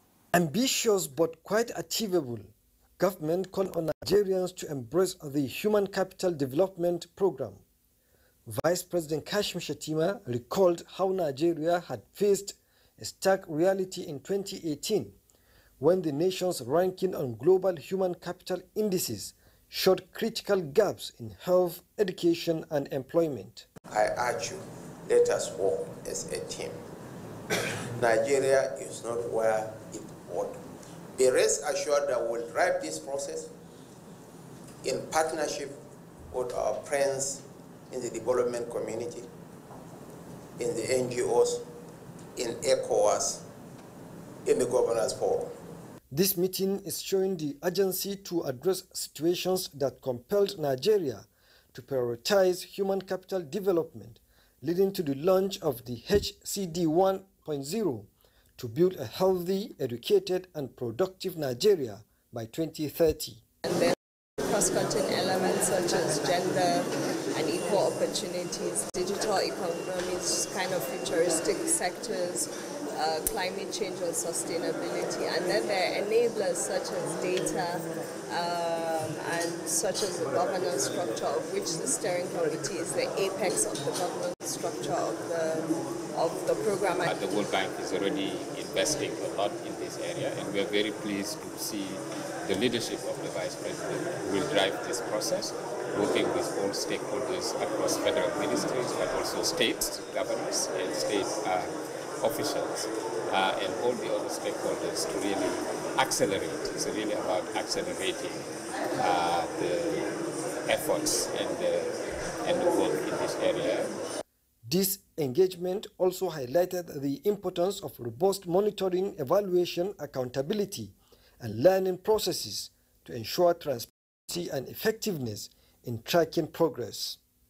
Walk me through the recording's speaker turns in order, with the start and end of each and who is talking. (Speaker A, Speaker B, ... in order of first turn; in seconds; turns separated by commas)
Speaker A: 0.3-7.6, Speaker A: 8.5-15.2, Speaker A: 15.8-23.6, Speaker B: 23.9-26.8, Speaker B: 27.5-30.6, Speaker B: 31.1-33.5, Speaker B: 34.8-35.8, Speaker B: 36.3-39.3, Speaker B: 40.6-41.6, Speaker B: 42.4-43.4, Speaker B: 44.4-45.5, Speaker A: 46.1-63.4, Speaker C: 63.6-87.2, Speaker D: 87.0-108.4, Speaker D: 109.0-110.1, Speaker D: 110.7-113.9, Speaker A: 114.7-127.2